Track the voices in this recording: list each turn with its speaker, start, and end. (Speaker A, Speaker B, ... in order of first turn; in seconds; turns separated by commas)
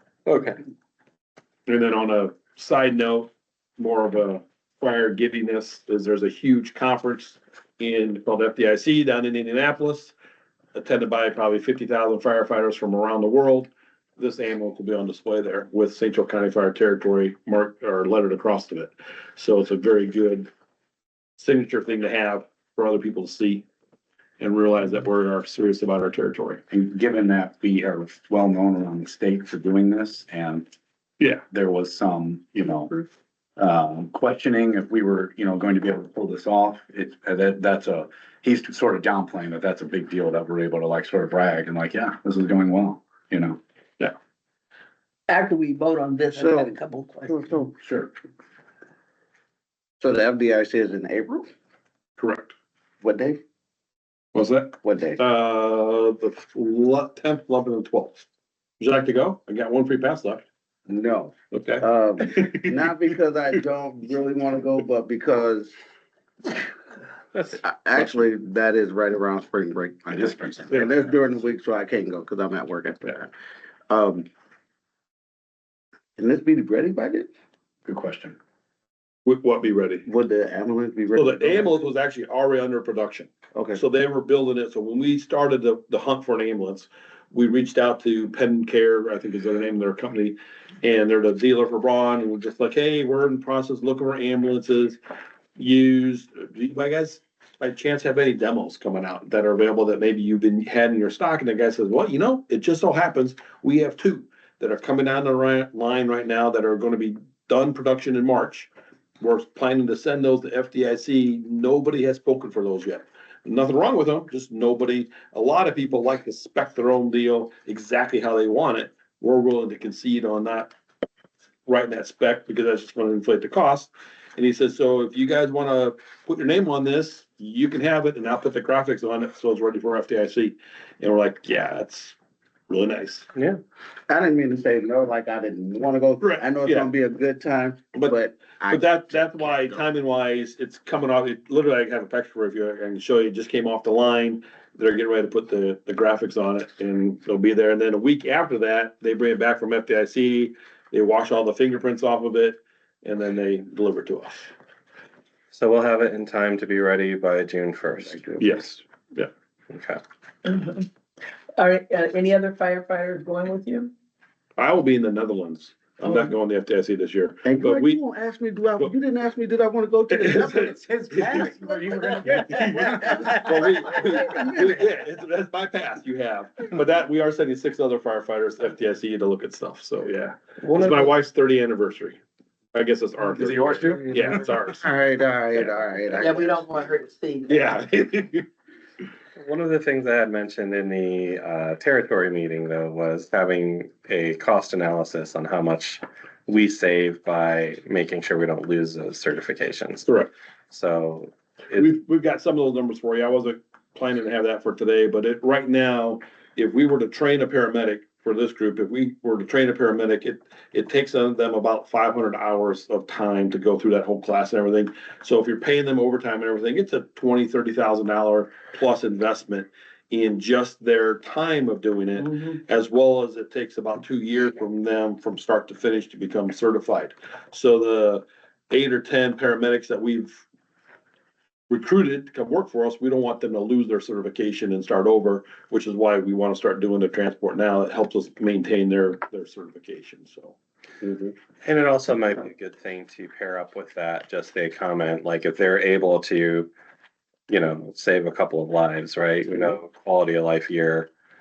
Speaker A: 0.2-0.6, Speaker B: 1.7-10.1, Speaker B: 10.7-20.5, Speaker B: 21.4-23.6, Speaker B: 24.4-26.6, Speaker C: 26.7-30.7, Speaker C: 31.5-33.0, Speaker C: 33.6-43.6, Speaker D: 45.3-47.6, Speaker E: 46.4-46.7, Speaker E: 47.3-47.7, Speaker C: 47.8-48.1, Speaker E: 50.0-51.5, Speaker B: 52.2-52.5, Speaker E: 53.0-53.4, Speaker B: 54.3-58.2, Speaker E: 54.8-55.2, Speaker B: 58.8-60.4, Speaker E: 60.9-65.7, Speaker B: 61.5-62.8, Speaker E: 67.5-73.3, Speaker C: 70.2-71.0, Speaker E: 73.9-74.3, Speaker E: 76.2-77.3, Speaker C: 77.8-78.4, Speaker B: 79.2-80.0, Speaker E: 80.0-81.8, Speaker B: 81.2-95.0, Speaker E: 83.5-83.8, Speaker B: 95.5-120.7, Speaker B: 121.7-132.2, Speaker B: 132.7-133.3, Speaker A: 133.3-133.6, Speaker E: 134.1-139.8, Speaker B: 136.2-136.9, Speaker B: 138.7-154.5, Speaker A: 155.5-158.3, Speaker E: 158.0-158.4, Speaker B: 158.4-159.3, Speaker A: 159.7-160.0, Speaker D: 160.4-160.9, Speaker D: 161.6-163.9, Speaker B: 164.6-168.0, Speaker D: 166.0-166.3, Speaker E: 167.4-174.8, Speaker B: 170.1-182.2, Speaker D: 171.9-173.4, Speaker A: 180.6-181.1, Speaker B: 182.7-184.9, Speaker C: 183.3-184.6, Speaker E: 184.7-186.7, Speaker B: 185.5-186.3, Speaker D: 186.2-187.8, Speaker B: 187.5-188.4, Speaker A: 189.3-200.1, Speaker B: 200.0-200.3, Speaker A: 200.7-201.9, Speaker B: 201.7-230.4, Speaker B: 231.7-240.6, Speaker E: 241.0-241.3, Speaker A: 241.6-246.7, Speaker A: 247.5-251.1